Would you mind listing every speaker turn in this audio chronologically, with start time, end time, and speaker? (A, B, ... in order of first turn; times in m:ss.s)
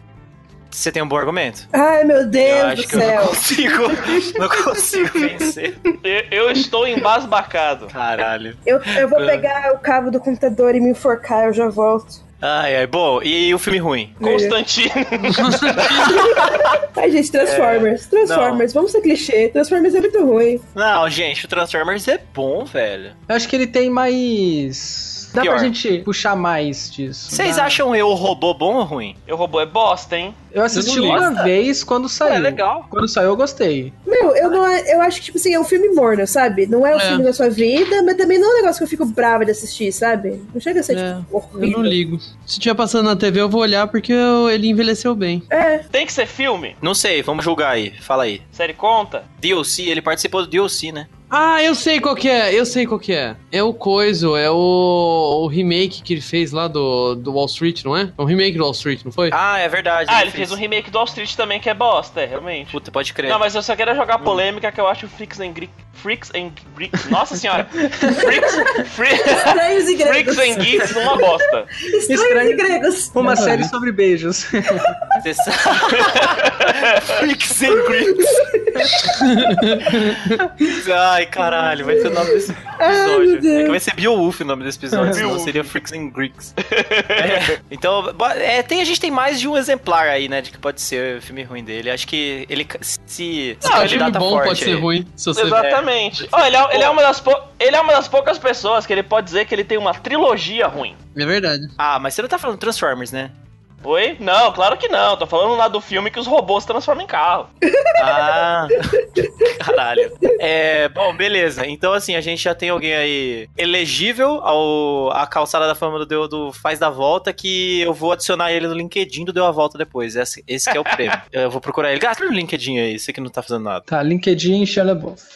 0:00.7-0:01.7 A
0:01.7-0:05.0 B
0:02.4-0:05.8 A
0:06.0-0:07.9 C
0:07.9-0:09.5 A
0:08.6-0:12.2 B
0:12.4-0:14.2 A
0:14.2-0:14.6 B
0:14.2-0:16.2 C
0:15.3-0:16.2 D
0:16.0-0:16.7 A
0:16.0-0:20.6 B
0:17.4-0:18.6 A
0:20.8-0:23.2 A
0:23.3-0:27.8 E
0:25.4-0:25.7 A
0:27.3-0:29.2 A
0:29.3-0:30.4 C
0:30.5-0:33.9 E
0:30.7-0:31.3 D
0:31.0-0:31.5 A
0:32.2-0:32.9 A
0:34.0-0:42.0 B
0:36.9-0:37.3 D
0:40.9-0:45.4 D
0:45.5-0:45.8 B
0:45.9-0:46.8 C
0:46.8-0:48.4 A
0:48.5-0:49.2 C
0:49.4-0:51.1 A
0:51.3-0:59.4 D
0:59.3-1:00.6 A
1:00.1-1:11.7 C
1:02.7-1:03.4 A
1:07.9-1:08.3 E
1:08.2-1:08.7 B
1:09.2-1:11.3 B
1:11.9-1:13.4 B
1:12.1-1:15.2 E
1:13.2-1:13.7 D
1:15.2-1:18.4 A
1:15.9-1:17.2 C
1:17.7-1:19.2 B
1:19.1-1:20.4 D
1:20.7-1:26.6 A
1:21.5-1:23.8 B
1:24.9-1:25.3 E
1:25.1-1:25.8 C
1:26.6-1:27.5 C
1:27.2-1:34.9 A
1:33.6-1:35.7 D
1:33.6-1:34.1 C
1:35.4-1:41.0 C
1:35.5-1:35.8 A
1:41.1-1:41.7 D
1:41.8-1:43.3 A
1:43.8-1:47.5 C
1:47.7-1:48.2 B
1:48.0-2:03.9 A
2:03.9-2:05.2 E